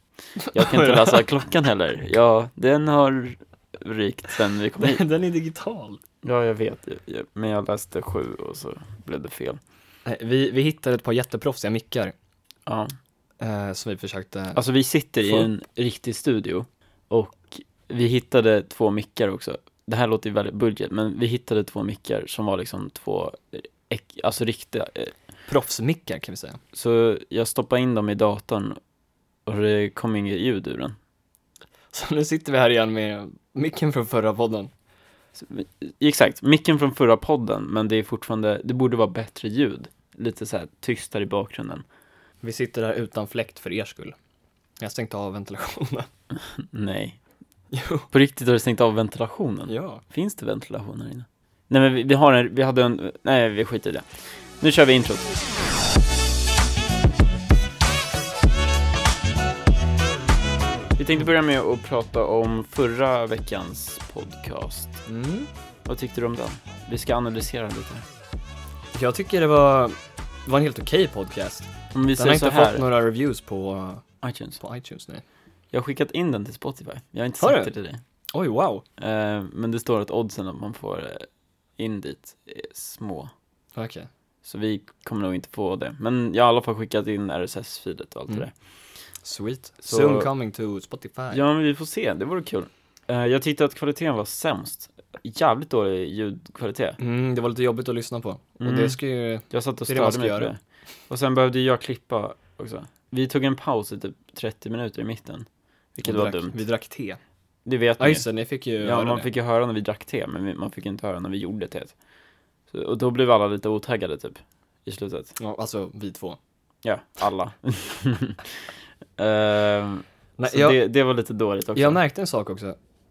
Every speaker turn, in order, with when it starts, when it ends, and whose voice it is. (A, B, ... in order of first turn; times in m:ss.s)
0:00.4-0:01.2 A
0:00.5-0:05.0 B
0:04.8-0:06.0 A
0:06.2-0:09.6 B
0:10.0-0:12.2 A
0:12.7-0:13.0 B
0:13.4-0:14.6 A
0:14.5-0:25.1 B
0:15.2-0:15.5 A
0:25.5-0:26.6 A
0:26.7-0:28.8 B
0:29.5-0:31.0 B
0:31.9-0:34.7 A
0:35.4-0:41.8 B
0:42.4-0:44.2 A
0:44.8-0:46.1 A
0:46.3-0:47.2 B
0:47.7-0:48.1 A
0:48.1-0:54.1 B
0:49.7-0:50.0 A
0:54.6-0:55.4 B
1:01.0-1:05.0 B
1:05.1-1:05.5 A
1:05.9-1:08.0 B
1:08.9-1:14.0 A
1:11.9-1:12.8 B
1:14.2-1:14.6 B
1:14.6-1:15.2 A
1:15.7-1:18.0 B
1:17.4-1:17.7 A
1:18.3-1:18.8 A
1:19.0-1:23.3 B
1:23.8-1:24.1 A
1:24.4-1:28.5 B
1:29.2-1:31.4 A
1:29.8-1:30.3 B
1:31.3-1:37.0 B
1:37.0-1:40.5 A
1:38.6-1:39.0 B
1:39.5-1:46.6 B
1:46.0-1:47.2 A
1:47.7-1:48.3 B
1:48.0-1:49.3 A
1:48.8-1:51.9 B
1:52.7-1:55.4 B
1:55.4-1:56.4 A
1:56.8-2:02.0 B
2:00.4-2:00.8 A
2:01.8-2:02.8 A